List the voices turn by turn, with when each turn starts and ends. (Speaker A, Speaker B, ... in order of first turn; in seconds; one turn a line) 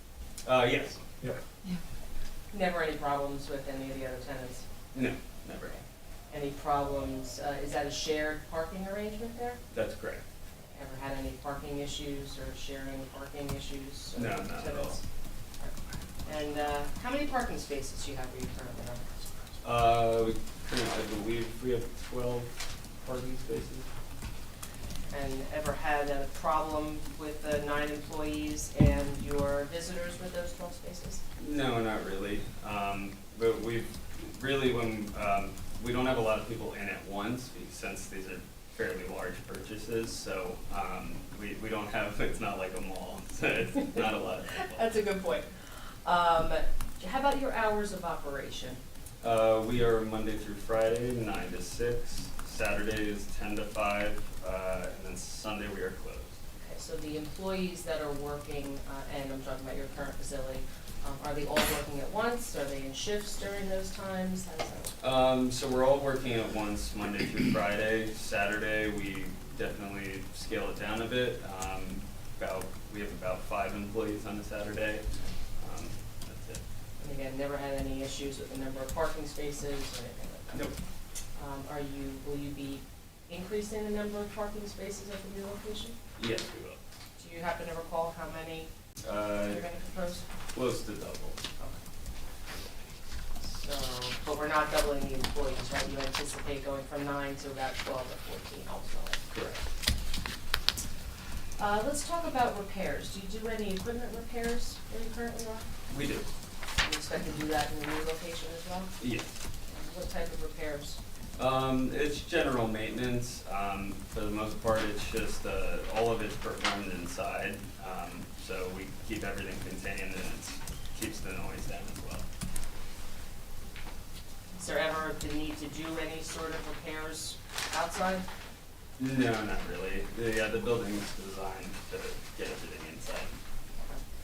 Speaker A: 0.4-1.0
Speaker B: 2.5-4.6
Speaker A: 4.9-5.8
Speaker B: 6.3-9.6
Speaker A: 9.7-10.2
Speaker B: 10.7-15.0
Speaker A: 14.2-15.0
Speaker B: 15.6-19.2
Speaker A: 19.6-23.9
Speaker B: 25.1-31.2
Speaker A: 31.4-44.8
Speaker B: 44.5-45.5
Speaker B: 46.0-48.8
Speaker A: 49.2-56.3
Speaker B: 56.6-64.9
Speaker A: 65.0-75.0
Speaker A: 75.6-76.6
Speaker B: 77.0-80.7
Speaker A: 80.5-80.8
Speaker B: 81.3-86.0
Speaker A: 86.2-86.8
Speaker B: 87.2-88.7
Speaker A: 89.0-89.6
Speaker B: 89.4-90.2
Speaker A: 90.5-91.4
Speaker B: 93.4-99.2
Speaker A: 99.3-99.6
Speaker B: 101.6-105.7
Speaker A: 105.9-106.3
Speaker B: 106.8-108.9
Speaker A: 109.0-109.3
Speaker B: 109.7-111.0
Speaker A: 111.4-122.2
Speaker B: 124.5-128.2
Speaker A: 129.0-133.3